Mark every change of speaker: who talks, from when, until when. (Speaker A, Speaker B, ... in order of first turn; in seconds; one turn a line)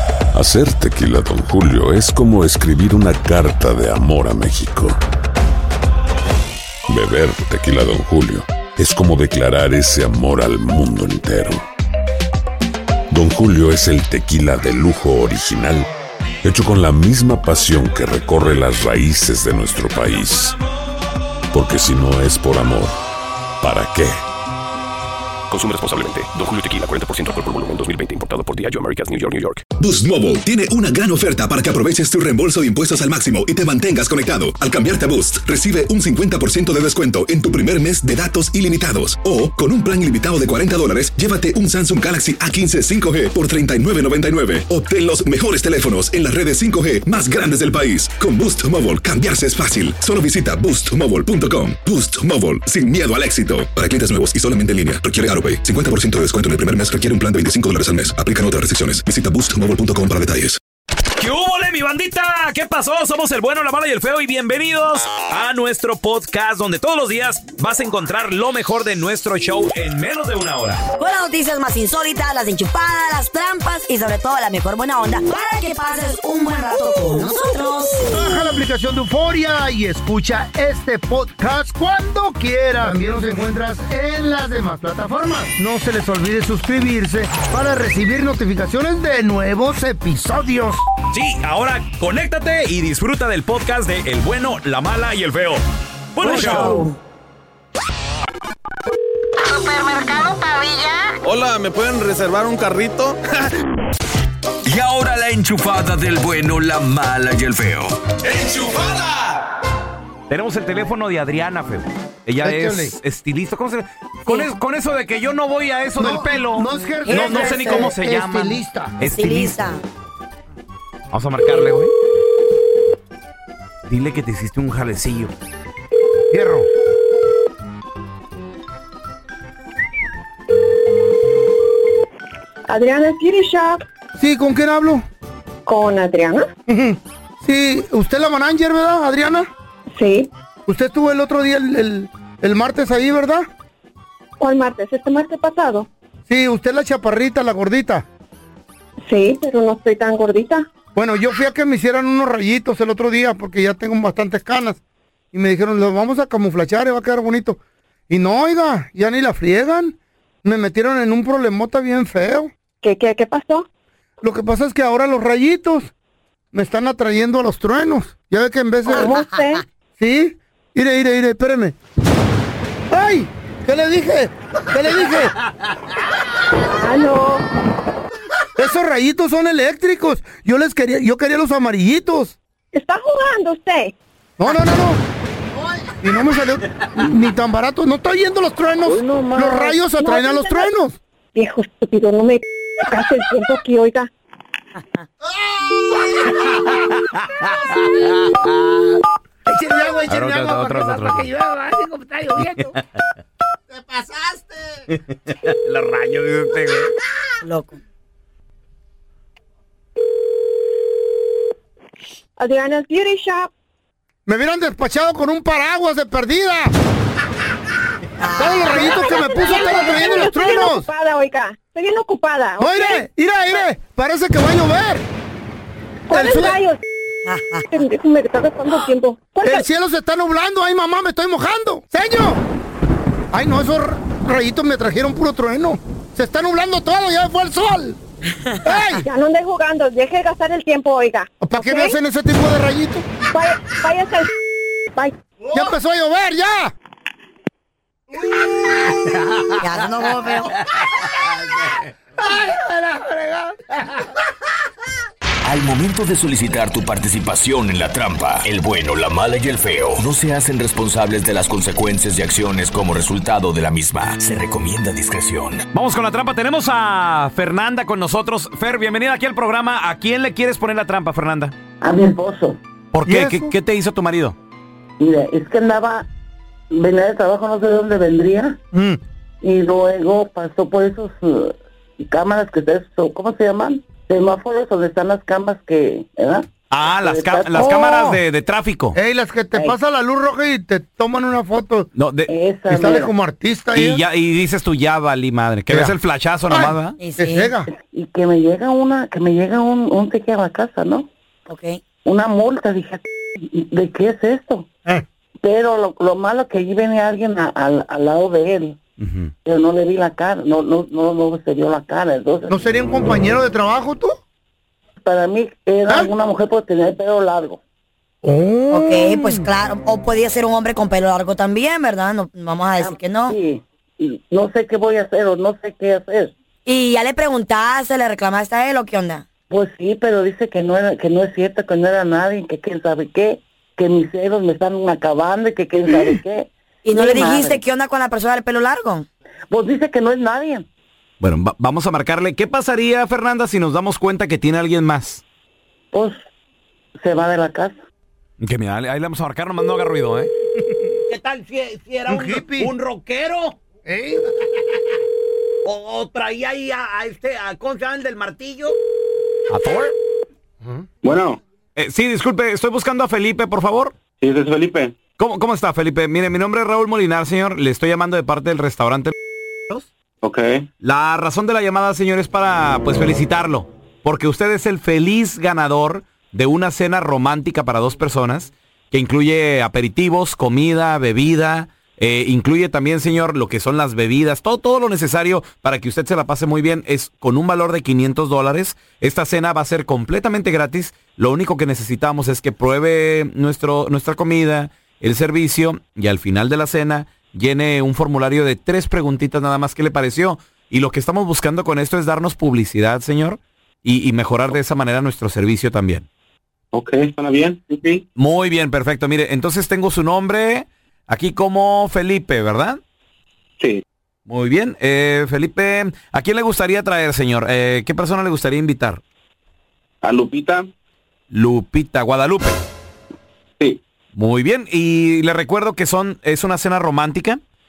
Speaker A: 0.3-5.0
Speaker A: 6.9-11.7
Speaker A: 13.1-15.9
Speaker A: 16.4-20.6
Speaker A: 21.5-23.0
Speaker A: 23.6-24.2
Speaker B: 25.5-29.6
Speaker C: 29.8-60.6
Speaker D: 61.2-70.8
Speaker E: 71.0-78.3
Speaker F: 78.1-90.8
Speaker D: 91.1-95.6
Speaker D: 96.2-96.9
Speaker E: 96.2-97.0
Speaker G: 101.2-103.2
Speaker H: 104.6-108.8
Speaker D: 110.3-119.7
Speaker F: 112.4-113.0
Speaker F: 116.0-119.0
Speaker E: 117.1-118.0
Speaker E: 119.0-119.8
Speaker D: 121.1-121.9
Speaker D: 123.9-125.3
Speaker F: 126.3-126.7
Speaker I: 132.7-133.8
Speaker F: 134.2-135.1
Speaker I: 135.7-136.5
Speaker F: 136.7-139.5
Speaker I: 139.9-140.3
Speaker F: 140.7-143.5
Speaker I: 144.4-145.9
Speaker F: 146.3-148.1
Speaker I: 149.1-150.7
Speaker F: 150.9-154.8
Speaker F: 155.3-162.5
Speaker I: 162.8-163.7
Speaker F: 164.2-165.9
Speaker F: 166.5-169.2
Speaker I: 168.9-169.6
Speaker F: 170.0-171.8
Speaker F: 172.9-175.3
Speaker I: 176.7-177.4
Speaker F: 178.6-182.4
Speaker I: 182.7-183.9
Speaker F: 184.4-185.0
Speaker F: 186.0-191.0
Speaker J: 188.9-189.8
Speaker I: 189.9-190.7
Speaker I: 191.3-194.1
Speaker F: 195.6-196.7
Speaker D: 196.6-198.5
Speaker F: 199.5-202.7
Speaker D: 200.1-201.3
Speaker F: 203.7-204.6
Speaker D: 205.1-206.9
Speaker E: 207.4-207.8
Speaker I: 212.4-213.5
Speaker F: 214.3-216.7
Speaker E: 218.2-218.9
Speaker F: 218.4-220.9
Speaker I: 218.8-223.0
Speaker F: 222.6-225.1
Speaker I: 226.1-226.8
Speaker F: 226.1-226.6
Speaker E: 227.2-227.7
Speaker I: 227.7-229.7
Speaker F: 229.4-232.4
Speaker F: 233.3-238.0
Speaker F: 238.6-239.1
Speaker I: 239.0-242.0
Speaker F: 241.4-243.1
Speaker I: 243.3-244.3
Speaker F: 245.5-246.7
Speaker E: 249.6-250.6
Speaker F: 252.2-253.6
Speaker H: 255.4-265.6
Speaker D: 265.7-271.5
Speaker J: 271.8-272.6
Speaker D: 272.9-274.4
Speaker F: 273.1-273.5
Speaker J: 275.0-276.1
Speaker J: 276.7-278.6
Speaker F: 278.7-279.0
Speaker J: 279.4-288.1
Speaker D: 286.7-289.0
Speaker F: 288.9-291.9
Speaker D: 292.0-292.3
Speaker J: 292.3-293.1
Speaker F: 292.7-294.0
Speaker D: 293.7-297.0
Speaker F: 295.7-296.0
Speaker F: 296.5-297.7
Speaker E: 297.0-297.5
Speaker J: 297.7-301.1
Speaker E: 301.5-301.8
Speaker J: 302.1-304.7
Speaker J: 305.4-308.8
Speaker D: 309.0-309.3
Speaker J: 309.4-312.6
Speaker F: 312.5-314.2
Speaker J: 315.0-317.6
Speaker F: 318.2-319.4
Speaker E: 318.7-323.4
Speaker J: 322.8-326.3
Speaker E: 326.7-329.3
Speaker J: 329.5-337.6
Speaker E: 336.8-339.1
Speaker J: 339.5-340.7
Speaker D: 341.2-345.2
Speaker J: 345.9-346.2
Speaker J: 347.0-347.8
Speaker D: 348.4-350.3
Speaker K: 351.1-353.6
Speaker F: 352.1-352.7
Speaker F: 353.9-354.2
Speaker K: 355.6-358.8
Speaker D: 359.5-359.9
Speaker L: 361.0-361.4
Speaker D: 361.8-363.9
Speaker L: 364.2-365.0
Speaker D: 365.2-369.1
Speaker L: 370.2-370.6
Speaker D: 370.8-406.1
Speaker L: 406.7-408.1
Speaker D: 408.2-412.8
Speaker D: 414.3-419.0
Speaker L: 420.0-420.7
Speaker D: 421.3-422.6
Speaker D: 424.1-427.4